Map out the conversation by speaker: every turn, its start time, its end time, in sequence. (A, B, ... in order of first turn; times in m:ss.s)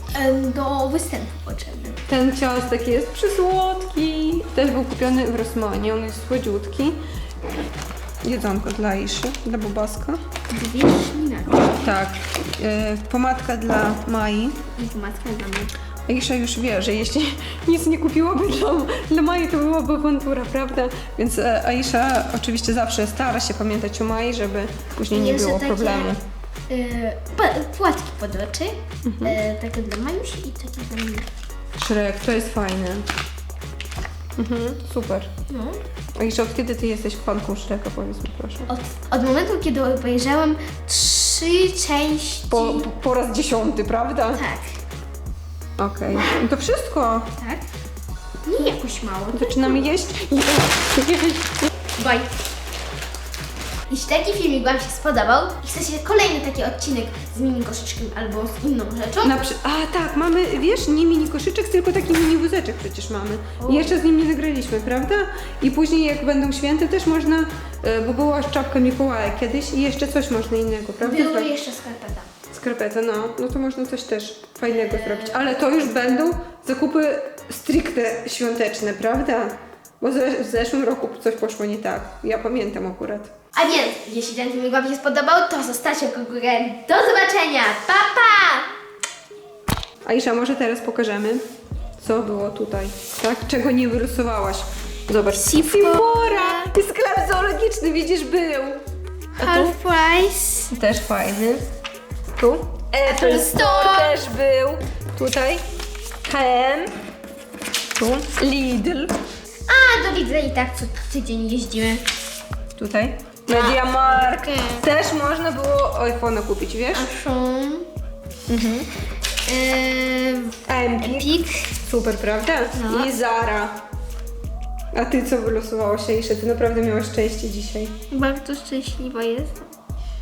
0:00.1-0:02.0 A
0:02.1-0:07.0 B
0:08.2-0:10.2 B
0:10.5-0:11.9 A
0:11.7-0:14.6 B
0:14.8-0:15.7 A
0:16.1-0:26.2 B
0:25.1-0:26.1 A
0:26.7-0:31.3 A
0:29.0-0:29.4 B
0:31.8-0:33.1 B
0:34.4-0:35.3 B
0:35.5-0:35.8 A
0:36.2-0:38.7 B
0:38.7-0:42.9 A
0:42.5-0:44.4 B
0:44.3-0:44.8 A
0:45.8-0:47.3 B
0:47.4-0:47.6 A
0:48.4-0:49.9 A
0:49.3-0:51.7 B
0:52.0-0:52.3 A
0:53.9-0:59.4 A
0:59.2-1:11.5 B
1:03.6-1:03.9 A
1:11.0-1:12.3 A
1:12.5-1:23.3 B
1:14.8-1:15.5 A
1:23.5-1:28.7 A
1:30.0-1:31.4 B
1:32.0-1:38.8 B
1:35.3-1:36.7 A
1:39.4-1:40.7 A
1:39.4-1:39.7 B
1:40.7-1:41.6 B
1:42.3-1:45.6 B
1:43.0-1:44.2 A
1:46.2-1:46.9 B
1:48.0-1:49.2 B
1:49.7-1:52.0 A
1:52.8-1:57.1 B
1:53.5-1:54.8 A
1:56.9-1:57.9 A
1:58.5-1:58.8 B
1:59.4-2:01.6 A
2:00.6-2:03.8 B
2:02.7-2:03.1 A
2:04.9-2:08.0 B
2:08.1-2:09.7 A